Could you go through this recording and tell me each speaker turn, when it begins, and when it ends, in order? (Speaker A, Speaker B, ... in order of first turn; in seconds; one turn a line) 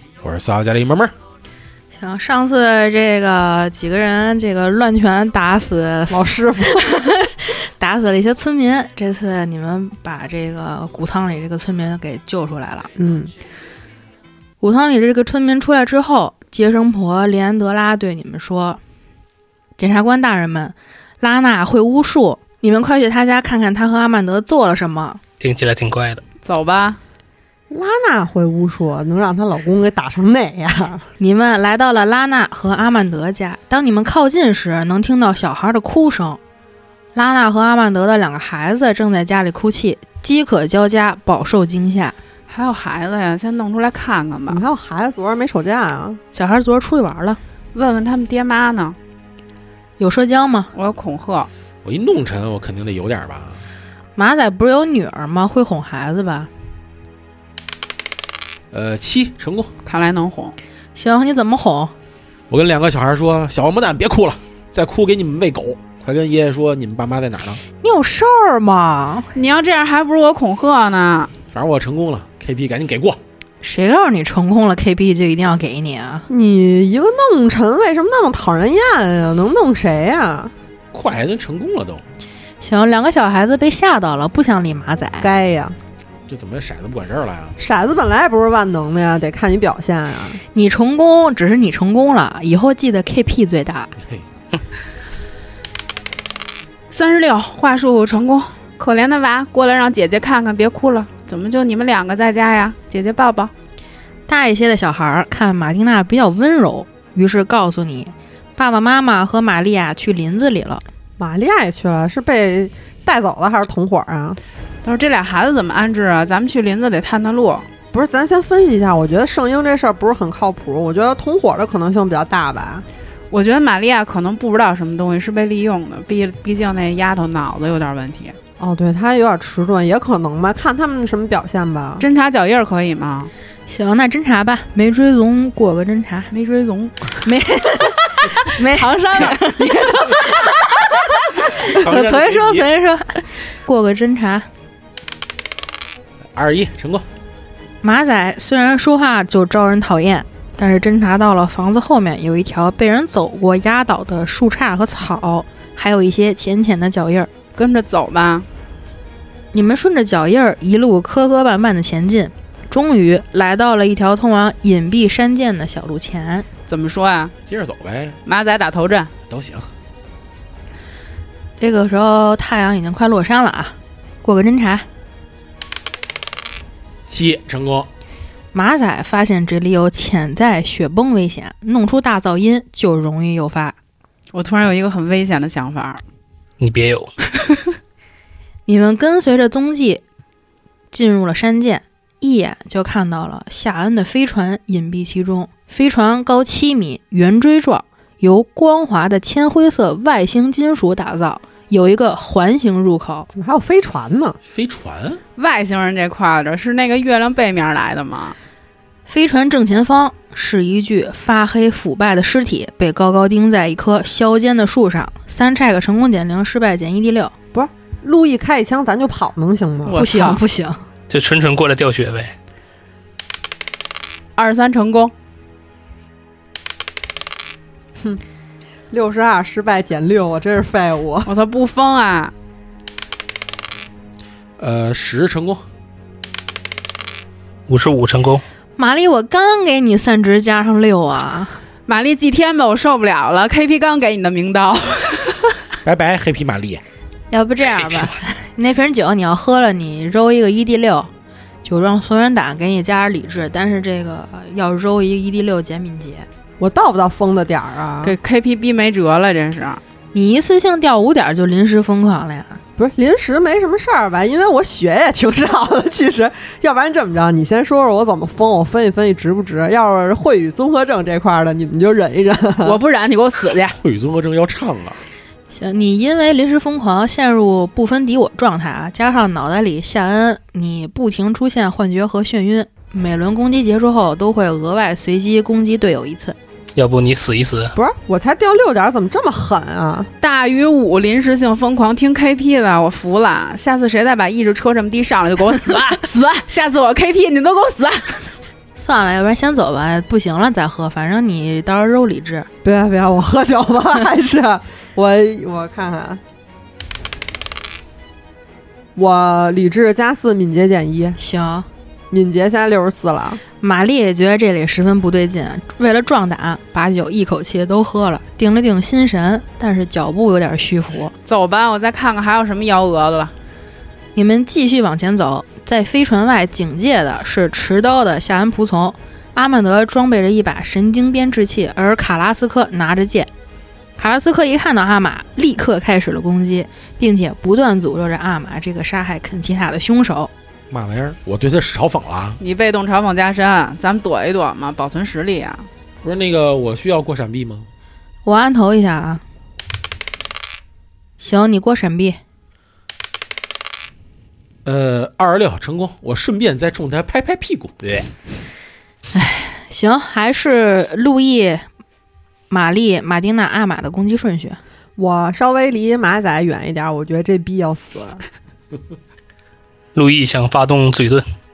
Speaker A: 0.2-1.1
Speaker B: 1.9-12.9
Speaker C: 6.1-6.9
Speaker C: 13.0-13.3
Speaker B: 14.6-18.8
Speaker B: 19.8-25.2
Speaker D: 25.4-26.2
Speaker E: 26.4-27.0
Speaker C: 27.7-31.0
Speaker B: 31.2-36.4
Speaker B: 37.1-42.1
Speaker E: 42.5-44.6
Speaker C: 44.5-46.2
Speaker B: 46.3-47.4
Speaker E: 47.7-49.0
Speaker B: 50.0-50.7
Speaker E: 50.7-51.5
Speaker A: 51.8-53.6
Speaker B: 54.1-56.5
Speaker A: 58.7-59.7
Speaker E: 59.8-60.6
Speaker B: 60.9-61.9
Speaker A: 62.5-67.6
Speaker B: 67.8-69.3
Speaker E: 69.3-71.3
Speaker A: 71.5-73.2
Speaker B: 73.6-76.2
Speaker C: 76.3-80.5
Speaker A: 80.9-82.0
Speaker B: 82.6-85.3
Speaker C: 85.2-85.8
Speaker A: 86.3-87.6
Speaker C: 87.6-90.4
Speaker B: 90.5-93.9
Speaker E: 96.9-103.5
Speaker B: 104.3-110.8
Speaker C: 111.2-114.4
Speaker E: 114.8-117.7
Speaker C: 117.9-122.8
Speaker E: 123.3-128.3
Speaker C: 128.6-132.1
Speaker E: 132.0-133.3
Speaker B: 133.7-136.3
Speaker E: 136.3-137.3
Speaker B: 137.2-144.5
Speaker E: 138.4-140.3
Speaker A: 141.7-142.7
Speaker A: 146.3-147.1
Speaker B: 147.8-157.3
Speaker E: 157.5-158.5
Speaker B: 159.5-166.4
Speaker E: 166.7-167.3
Speaker A: 167.5-168.2
Speaker E: 168.2-169.1
Speaker A: 169.3-169.7
Speaker B: 171.6-174.8
Speaker A: 177.1-177.9
Speaker B: 178.5-183.7
Speaker E: 184.3-186.0
Speaker D: 186.6-187.1
Speaker E: 187.4-187.7
Speaker B: 188.7-190.0
Speaker B: 190.9-203.3
Speaker C: 203.3-204.4
Speaker A: 204.4-205.2
Speaker E: 205.3-208.3
Speaker B: 209.1-217.3
Speaker C: 217.5-220.0
Speaker E: 219.8-220.4
Speaker B: 219.9-220.8
Speaker D: 221.1-222.3
Speaker E: 224.3-225.1
Speaker C: 228.9-231.3
Speaker E: 231.2-232.3
Speaker A: 234.6-235.6
Speaker D: 237.7-238.4
Speaker B: 238.8-241.6
Speaker E: 241.9-245.6
Speaker A: 245.8-246.8
Speaker B: 247.3-251.1
Speaker D: 247.8-248.1
Speaker B: 251.6-256.2
Speaker C: 256.6-258.1
Speaker E: 258.0-259.8
Speaker B: 260.1-262.6
Speaker C: 262.8-272.8
Speaker E: 272.6-273.8
Speaker A: 273.7-275.0
Speaker B: 275.5-286.4
Speaker D: 286.7-287.7
Speaker C: 287.7-290.1
Speaker E: 290.2-298.3
Speaker B: 298.8-302.5
Speaker C: 302.6-306.2
Speaker C: 308.9-311.2
Speaker B: 311.2-311.7
Speaker C: 312.1-313.4
Speaker B: 313.6-321.1
Speaker E: 321.2-323.3
Speaker B: 324.1-333.3
Speaker B: 334.0-340.3
Speaker A: 340.7-342.4
Speaker E: 342.4-345.7
Speaker A: 346.0-347.7
Speaker B: 348.2-349.2
Speaker B: 351.2-352.2
Speaker A: 354.6-358.1
Speaker B: 359.1-361.6
Speaker B: 362.5-364.6
Speaker C: 365.0-368.2
Speaker D: 369.9-371.2